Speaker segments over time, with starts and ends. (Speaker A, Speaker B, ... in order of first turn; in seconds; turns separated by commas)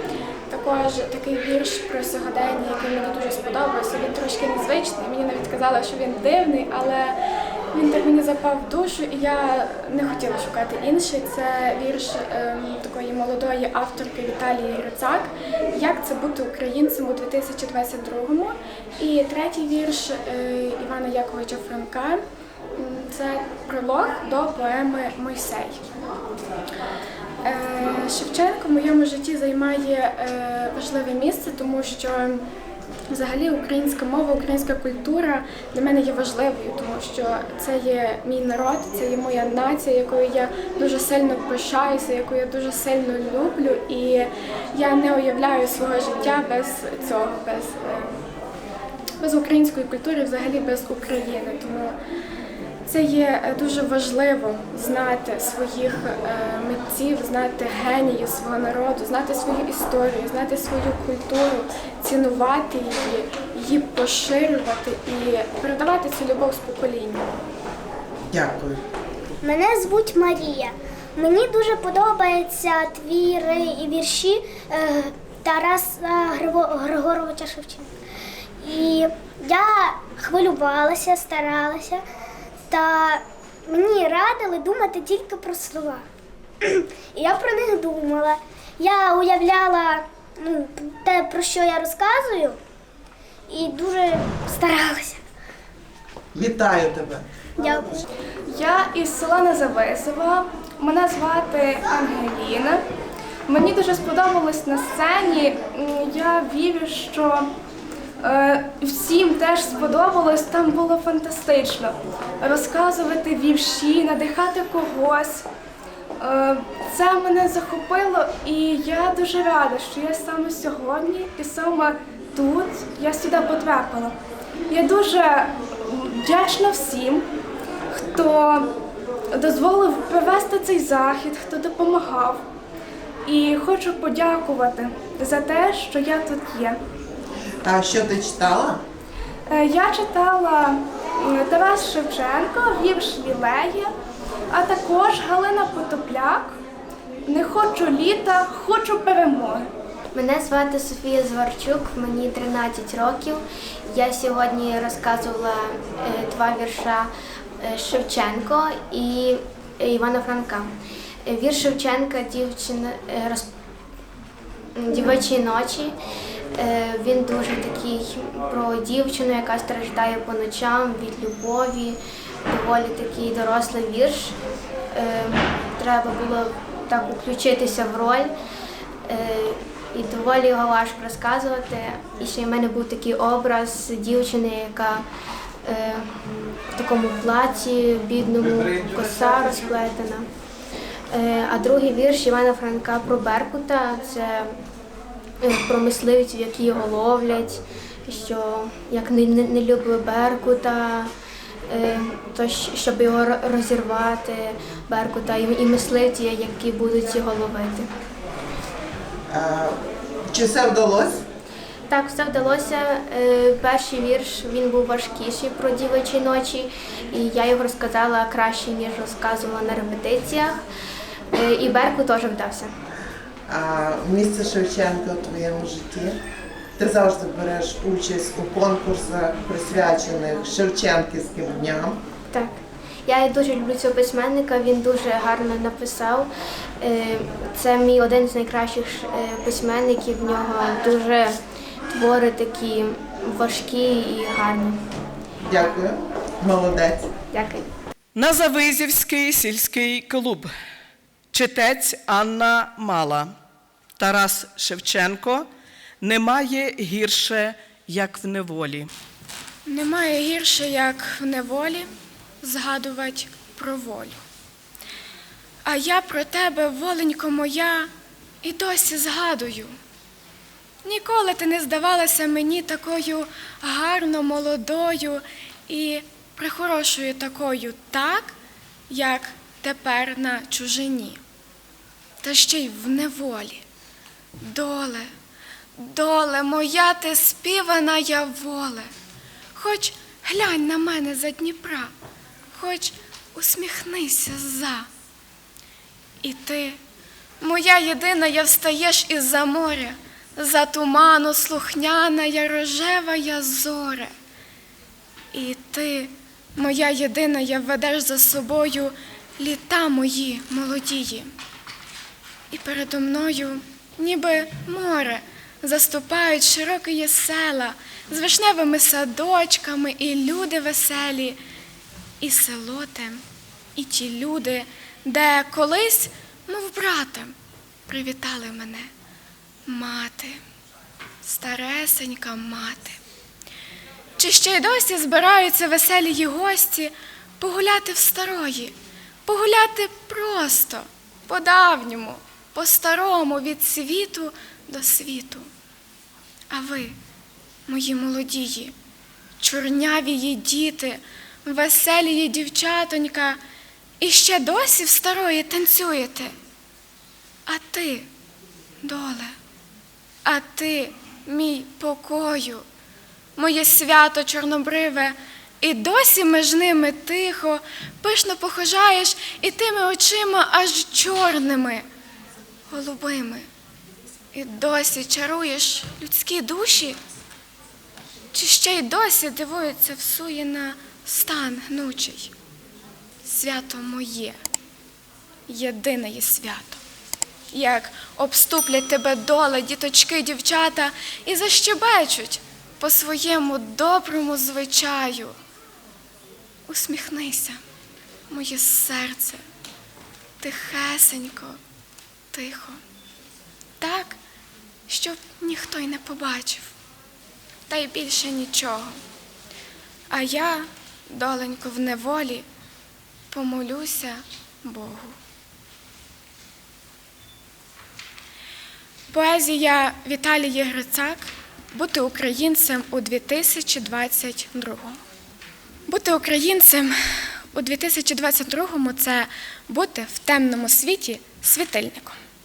Speaker A: 0.5-7.2, Speaker A: 7.7-22.2, Speaker A: 22.8-25.9, Speaker A: 27.4-32.5, Speaker A: 33.1-48.2, Speaker A: 49.2-52.0, Speaker A: 52.9-67.3, Speaker B: 68.3-68.8, Speaker C: 69.4-78.0, Speaker C: 78.6-82.0, Speaker C: 82.7-86.1, Speaker C: 86.6-92.6, Speaker C: 93.5-95.2, Speaker B: 96.3-97.3, Speaker C: 97.6-98.0, Speaker D: 98.5-102.8, Speaker D: 103.5-107.5, Speaker D: 108.2-115.5, Speaker D: 116.2-124.2, Speaker D: 124.7-127.3, Speaker D: 127.9-128.7, Speaker D: 129.3-132.4, Speaker D: 133.2-136.8, Speaker B: 137.6-138.8, Speaker D: 139.5-143.9, Speaker D: 144.5-146.6, Speaker D: 147.3-149.7, Speaker E: 150.1-160.7, Speaker E: 161.2-163.5, Speaker E: 164.8-165.9, Speaker E: 166.6-174.4, Speaker E: 174.9-178.3, Speaker E: 179.1-185.1, Speaker E: 185.7-186.2, Speaker E: 186.7-190.3, Speaker E: 191.1-194.6, Speaker E: 195.4-201.1, Speaker E: 201.7-207.9, Speaker B: 209.3-211.2, Speaker E: 211.9-220.7, Speaker E: 221.3-222.7, Speaker B: 223.5-226.2, Speaker B: 226.8-232.0, Speaker E: 232.3-244.9, Speaker B: 245.4-247.1, Speaker E: 247.3-247.7, Speaker F: 248.2-250.5, Speaker F: 251.3-253.3, Speaker F: 254.0-255.5, Speaker F: 256.0-258.9, Speaker A: 259.7-261.9, Speaker A: 262.4-264.2, Speaker A: 265.6-267.9, Speaker A: 268.4-269.8, Speaker A: 270.8-278.4, Speaker A: 278.9-281.2, Speaker A: 282.2-283.6, Speaker A: 284.4-285.1, Speaker A: 285.8-288.9, Speaker A: 289.6-291.9, Speaker A: 292.6-294.9, Speaker A: 296.2-296.8, Speaker A: 297.4-304.1, Speaker A: 305.3-311.3, Speaker A: 312.5-321.4, Speaker A: 322.2-323.2, Speaker A: 323.8-327.4, Speaker A: 327.9-328.9, Speaker A: 329.7-330.4, Speaker A: 331.2-333.0, Speaker A: 334.2-338.8, Speaker A: 339.3-345.5, Speaker A: 346.5-347.0, Speaker A: 347.7-348.7, Speaker A: 349.4-353.4, Speaker A: 354.0-356.3, Speaker A: 357.5-358.1, Speaker A: 358.8-359.3, Speaker A: 360.2-362.7, Speaker A: 363.4-371.9, Speaker A: 372.7-373.5, Speaker A: 374.3-377.0, Speaker A: 378.3-382.3, Speaker A: 383.2-384.4, Speaker A: 385.5-386.8, Speaker A: 387.5-395.4, Speaker A: 396.7-397.6, Speaker A: 398.3-399.4, Speaker A: 400.4-401.6, Speaker A: 402.3-402.8, Speaker A: 403.8-404.2, Speaker A: 404.9-406.7, Speaker A: 407.7-409.0, Speaker A: 410.1-412.5, Speaker A: 413.3-415.2, Speaker A: 419.1-425.0, Speaker A: 425.9-432.2